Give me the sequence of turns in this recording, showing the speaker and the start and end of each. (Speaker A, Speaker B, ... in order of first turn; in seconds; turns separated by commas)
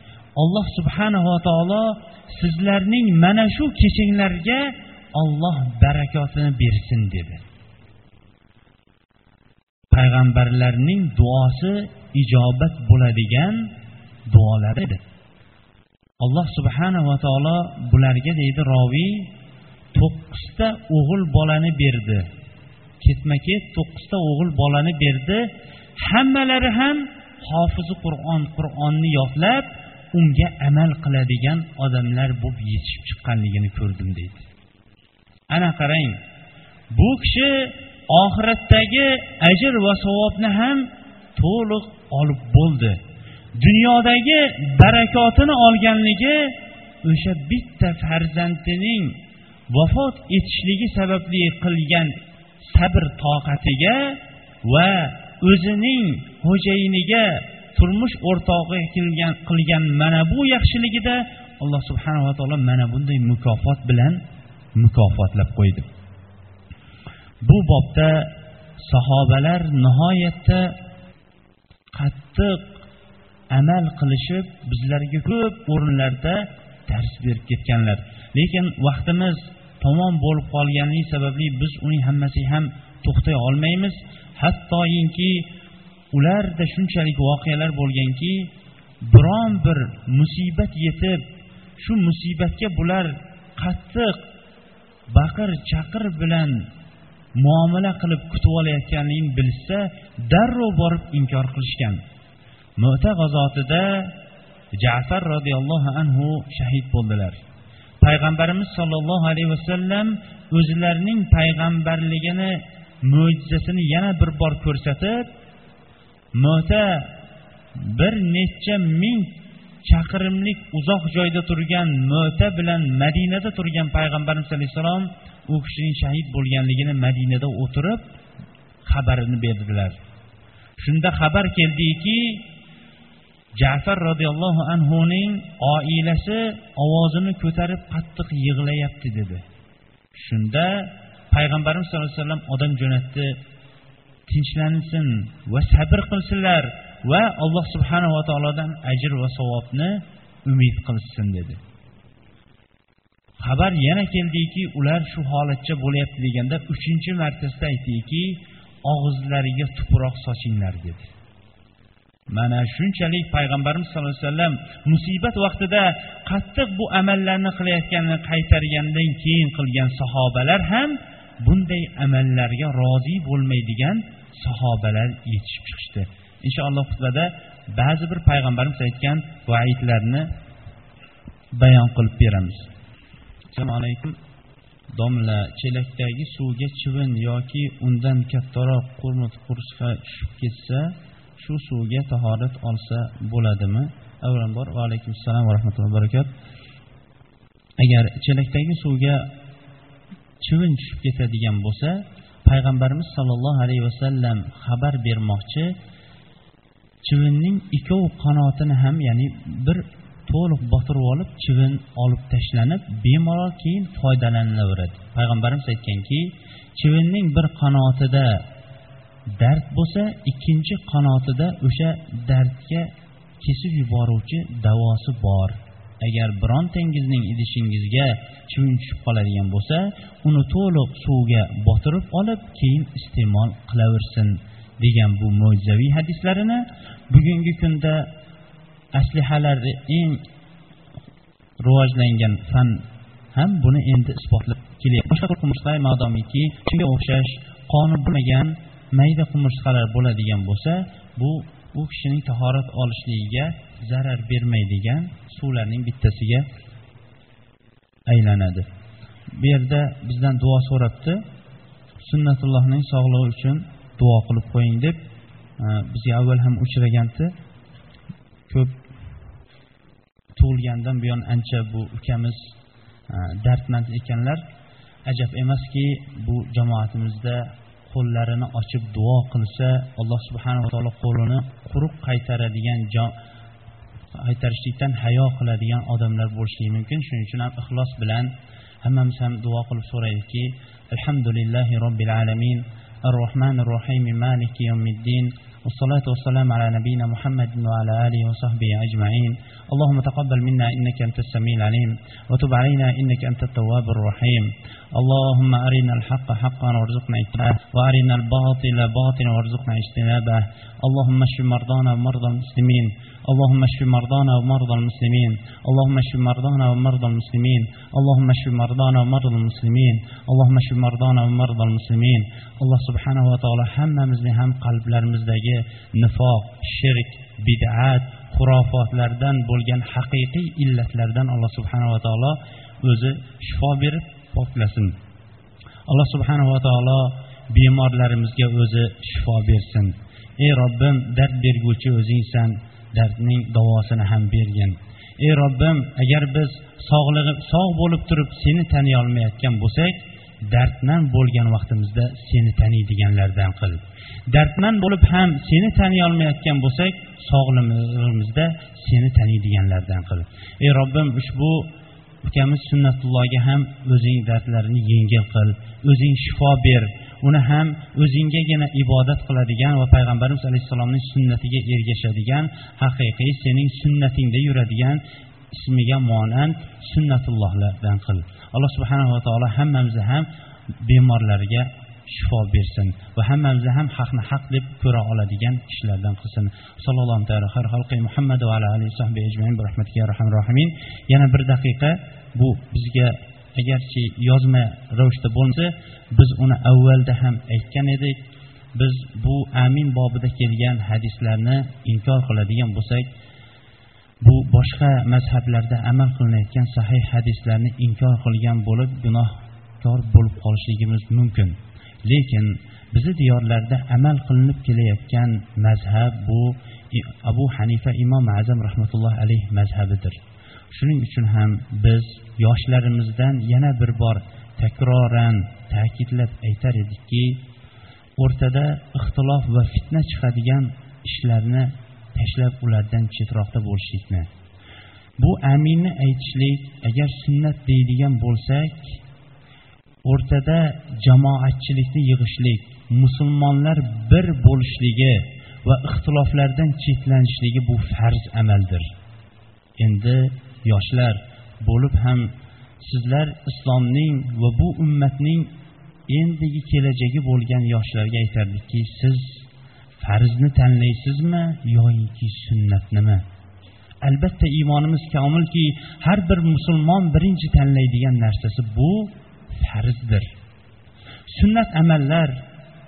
Speaker A: 0.4-7.4, Speaker A: 9.9-13.7, Speaker A: 14.3-15.0, Speaker A: 16.2-19.3, Speaker A: 19.9-22.3, Speaker A: 23.0-25.5, Speaker A: 26.0-34.4, Speaker A: 35.5-36.2, Speaker A: 36.9-43.0, Speaker A: 43.6-49.2, Speaker A: 49.7-64.2, Speaker A: 64.8-65.9, Speaker A: 67.4-70.7, Speaker A: 71.9-72.8, Speaker A: 73.5-85.5, Speaker A: 86.1-88.5, Speaker A: 89.0-91.2, Speaker A: 91.8-94.3, Speaker A: 95.1-96.7, Speaker A: 97.3-102.0, Speaker A: 102.8-104.1, Speaker A: 104.8-107.4, Speaker A: 108.0-115.3, Speaker A: 116.3-117.1, Speaker A: 117.8-128.1, Speaker A: 128.9-130.0, Speaker A: 130.8-132.5, Speaker A: 133.6-139.4, Speaker A: 140.2-143.4, Speaker A: 144.3-151.6, Speaker A: 153.4-161.1, Speaker A: 162.3-180.3, Speaker A: 181.6-182.7, Speaker A: 183.5-184.2, Speaker A: 184.9-196.3, Speaker A: 197.8-199.3, Speaker A: 200.4-205.8, Speaker A: 207.0-218.4, Speaker A: 219.4-238.1, Speaker A: 238.9-240.2, Speaker A: 241.6-256.4, Speaker A: 258.1-258.7, Speaker A: 259.4-261.2, Speaker A: 262.0-265.0, Speaker A: 265.6-267.3, Speaker A: 268.5-268.8, Speaker A: 270.4-272.5, Speaker A: 273.1-274.4, Speaker A: 275.1-283.1, Speaker A: 284.1-288.3, Speaker A: 288.8-334.9, Speaker A: 335.9-350.0, Speaker A: 350.5-361.7, Speaker A: 362.2-380.3, Speaker A: 380.8-398.2, Speaker A: 398.7-403.1, Speaker A: 404.2-420.2, Speaker A: 420.7-427.4, Speaker A: 428.2-434.3, Speaker A: 435.2-439.0, Speaker A: 440.0-448.9, Speaker A: 449.8-455.5, Speaker A: 456.1-459.5, Speaker A: 460.0-463.2, Speaker A: 464.0-470.3, Speaker A: 471.3-472.4